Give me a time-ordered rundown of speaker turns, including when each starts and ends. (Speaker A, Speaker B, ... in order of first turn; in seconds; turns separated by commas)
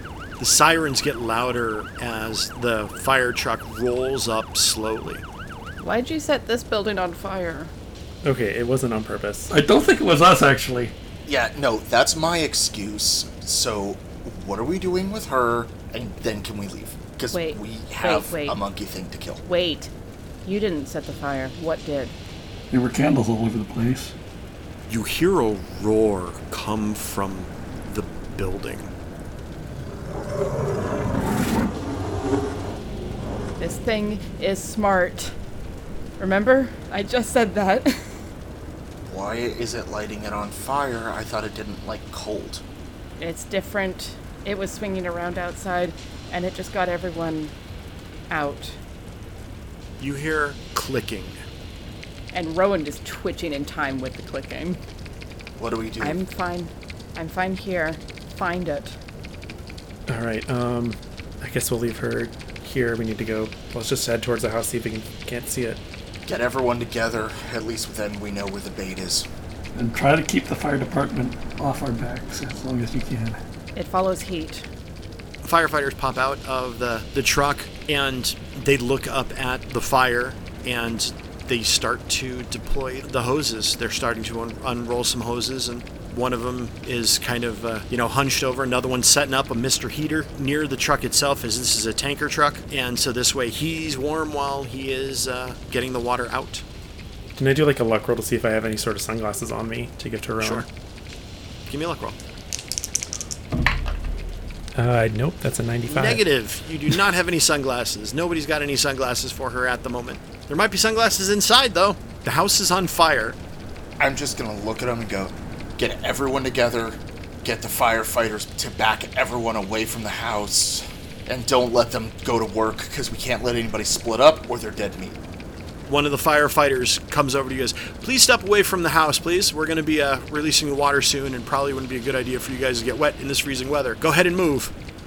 Speaker A: 0.4-5.2, Speaker B: 5.8-7.7, Speaker C: 8.2-9.5, Speaker D: 9.5-10.9, Speaker E: 11.3-19.4, Speaker B: 17.3-18.6, Speaker B: 19.4-19.9, Speaker B: 20.4-22.1, Speaker D: 22.7-24.1, Speaker A: 24.9-28.9, Speaker B: 33.6-35.4, Speaker B: 36.2-38.0, Speaker E: 39.1-42.6, Speaker B: 43.2-47.5, Speaker B: 48.3-48.8, Speaker A: 50.0-51.4, Speaker B: 52.3-54.8, Speaker E: 55.6-56.2, Speaker B: 56.0-59.0, Speaker C: 60.1-65.8, Speaker E: 66.3-69.3, Speaker D: 69.8-73.4, Speaker B: 73.8-74.7, Speaker A: 75.4-96.6, Speaker C: 97.4-100.7, Speaker A: 100.4-100.7, Speaker A: 101.7-102.2, Speaker C: 104.8-106.2, Speaker A: 105.9-113.4, Speaker E: 114.0-125.2, Speaker A: 125.9-134.7